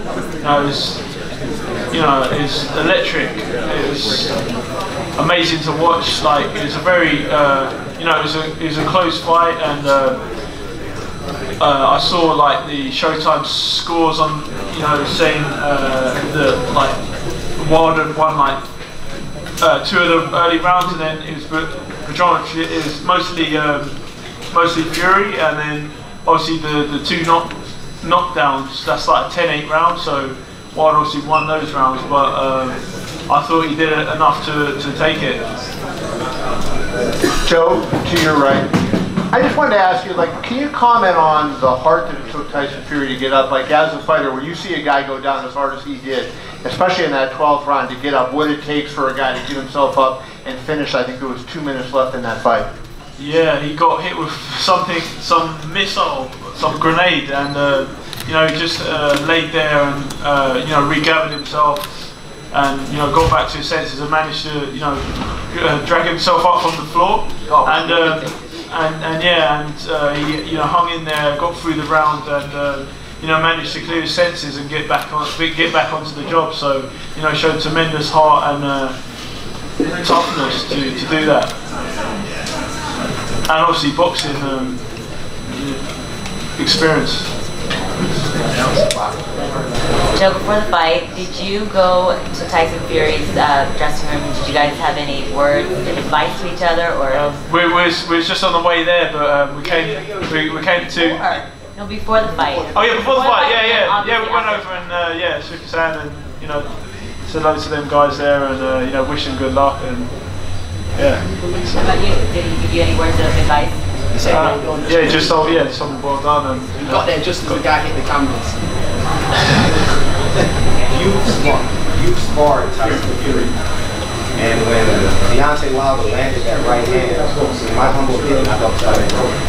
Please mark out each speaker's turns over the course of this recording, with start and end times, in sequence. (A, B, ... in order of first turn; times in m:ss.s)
0:00.4-0:01.0 A
0:01.9-0:04.4 A
0:05.2-0:10.2 A
0:11.6-0:17.0 A
0:17.6-0:18.6 A
0:19.6-0:24.0 A
0:24.5-0:35.4 A
0:37.4-0:38.7 B
0:39.3-0:52.7 B
0:53.2-1:01.9 A
1:02.5-1:19.0 A
1:20.0-1:21.5 A
1:23.5-1:24.8 A
1:25.5-1:25.8 A
1:26.6-1:27.3 A
1:30.1-1:37.3 C
1:37.1-1:41.4 A
1:40.8-1:44.7 C
1:42.7-1:46.7 A
1:47.2-1:50.1 A
1:51.0-1:51.9 A
1:51.8-1:53.8 C
1:54.1-1:55.4 D
1:54.3-1:57.6 A
1:56.9-1:58.6 D
2:00.9-2:03.5 E
2:04.4-2:09.4 E